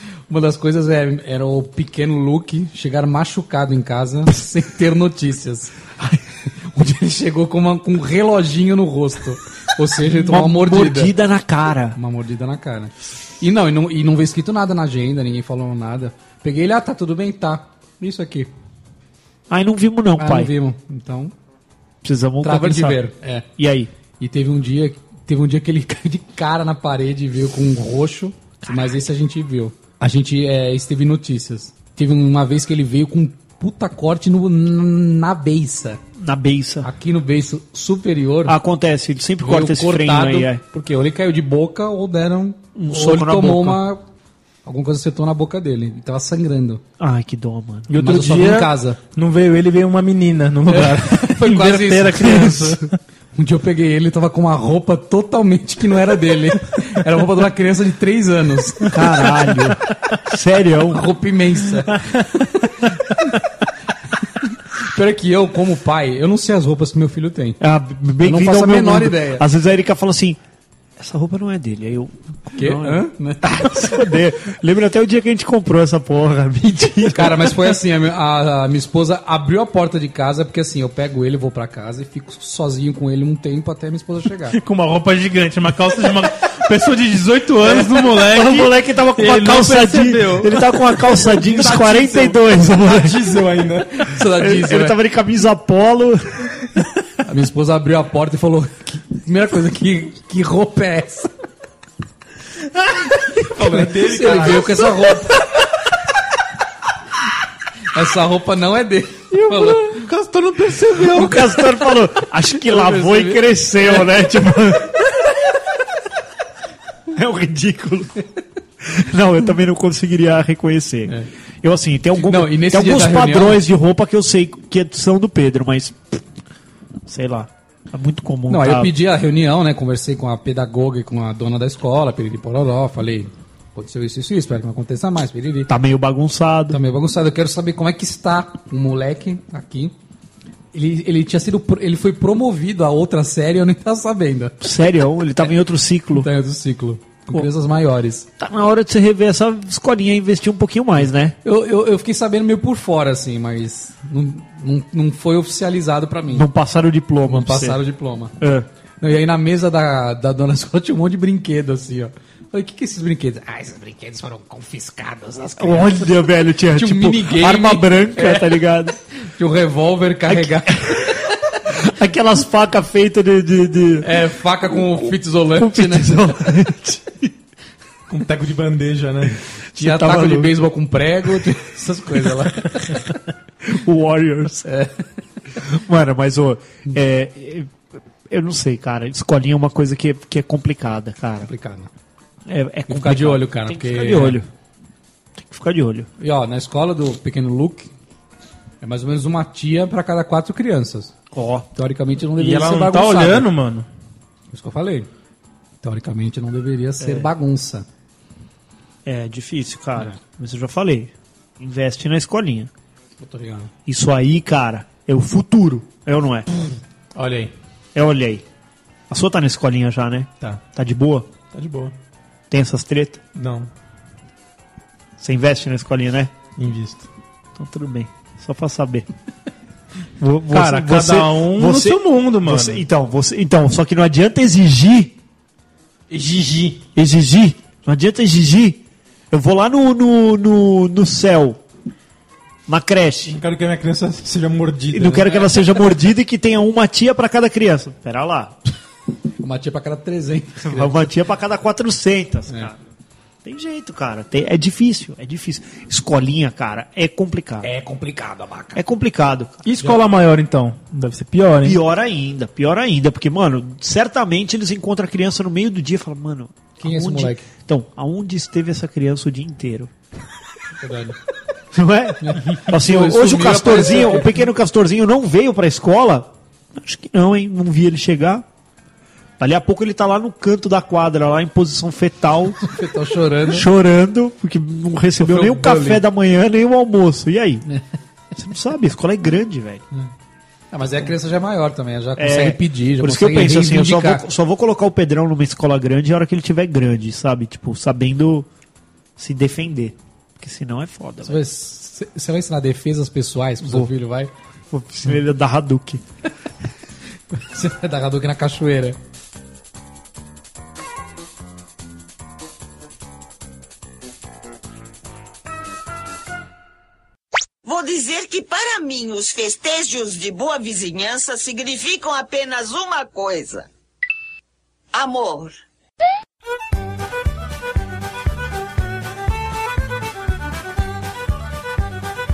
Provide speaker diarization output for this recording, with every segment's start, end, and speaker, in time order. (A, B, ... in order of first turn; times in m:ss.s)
0:00.3-0:05.9 A
0:06.7-0:11.1 A
0:10.1-0:12.0 B
0:12.0-0:18.5 A
0:19.5-0:20.5 B
0:20.2-0:21.3 A
0:22.0-0:23.0 B
0:22.4-0:23.4 A
0:23.6-0:23.9 B
0:24.2-0:36.0 A
0:36.2-0:36.9 B
0:36.8-0:38.6 A
0:38.4-0:40.6 B
0:39.4-0:44.0 A
0:42.8-0:43.8 B
0:44.6-0:46.8 A
0:47.0-0:48.2 B
0:47.9-0:52.9 C
0:47.9-0:49.0 A
0:50.7-0:52.6 A
0:52.2-0:52.8 B
0:53.3-0:59.3 A
0:58.9-1:01.1 B
1:00.9-1:03.1 A
1:04.8-1:07.6 A
1:07.6-1:10.4 B
1:08.2-1:09.4 A
1:11.0-1:17.8 B
1:12.5-1:13.8 A
1:17.1-1:24.6 A
1:24.5-1:30.6 C
1:27.6-1:33.4 B
1:31.3-1:34.1 D
1:34.0-1:35.0 A
1:34.2-1:36.5 B
1:37.2-1:41.3 A
1:43.5-1:44.8 D
1:43.8-1:45.6 A
1:47.9-1:50.1 A
1:49.5-1:49.8 B
1:49.8-1:51.3 C
1:50.9-1:55.0 B
1:52.6-1:54.1 A
1:57.1-1:58.2 B
1:58.8-2:06.2 B
2:02.2-2:03.6 A
2:07.0-2:08.9 B
2:08.5-2:15.7 A
2:15.7-2:16.8 B
2:16.7-2:19.9 A
2:20.7-2:24.6 A
2:24.6-2:26.3 B
2:26.1-2:28.3 A
2:28.4-2:31.3 B
2:31.4-2:36.4 A
2:36.3-2:37.8 B
2:37.2-2:38.3 A
2:38.4-2:38.7 B
2:39.0-2:48.6 A
2:45.6-2:49.0 B
2:49.2-2:51.4 A
2:50.3-2:54.1 B
2:54.0-2:56.3 A
2:55.6-2:57.3 B
2:58.1-2:59.4 D
2:59.7-3:00.5 B
2:59.8-3:03.1 A
3:03.6-3:04.7 B
3:04.6-3:05.0 A
3:05.6-3:07.8 B
3:08.3-3:11.5 B
3:11.4-3:11.9 A
3:12.4-3:14.5 B
3:12.9-3:14.4 A
3:15.4-3:16.1 B
3:16.2-3:17.9 A
3:18.8-3:21.1 A
3:21.3-3:21.7 B
3:21.7-3:23.5 A
3:22.4-3:23.8 C
3:24.5-3:25.1 A
3:25.8-3:27.8 A
3:27.0-3:27.3 B
3:29.0-3:32.7 B
3:33.2-3:33.7 A
3:33.8-3:36.5 B
3:37.1-3:37.5 D
3:37.9-3:38.4 B
3:39.1-3:41.3 B
3:41.5-3:41.9 D
3:42.5-3:43.2 B
3:43.4-3:43.7 D
3:45.2-3:46.3 B
3:46.6-3:47.0 D
3:47.6-3:49.0 B
3:50.2-3:55.1 B
3:50.5-3:52.8 C
3:56.1-3:56.8 D
3:56.9-4:01.6 B
4:02.7-4:03.4 B
4:03.2-4:05.4 D
4:04.9-4:08.6 B
4:09.4-4:11.0 A
4:10.6-4:12.8 B
4:13.4-4:17.7 B
4:17.6-4:18.8 A
4:18.7-4:19.6 B
4:19.6-4:21.8 C
4:21.6-4:29.9 B
4:26.8-4:27.4 A
4:30.8-4:31.2 A
4:31.7-4:38.4 B
4:32.2-4:34.4 A
4:39.4-4:42.7 B
4:42.6-4:43.7 A
4:43.4-4:47.7 B
4:45.2-4:46.0 A
4:48.3-4:49.8 B
4:50.7-4:54.2 A
4:52.2-4:58.5 B
4:59.2-5:01.4 B
5:01.2-5:04.3 A
5:03.6-5:03.9 B
5:04.7-5:06.0 B
5:07.3-5:09.0 A
5:17.6-5:23.7 E
5:24.9-5:25.6 E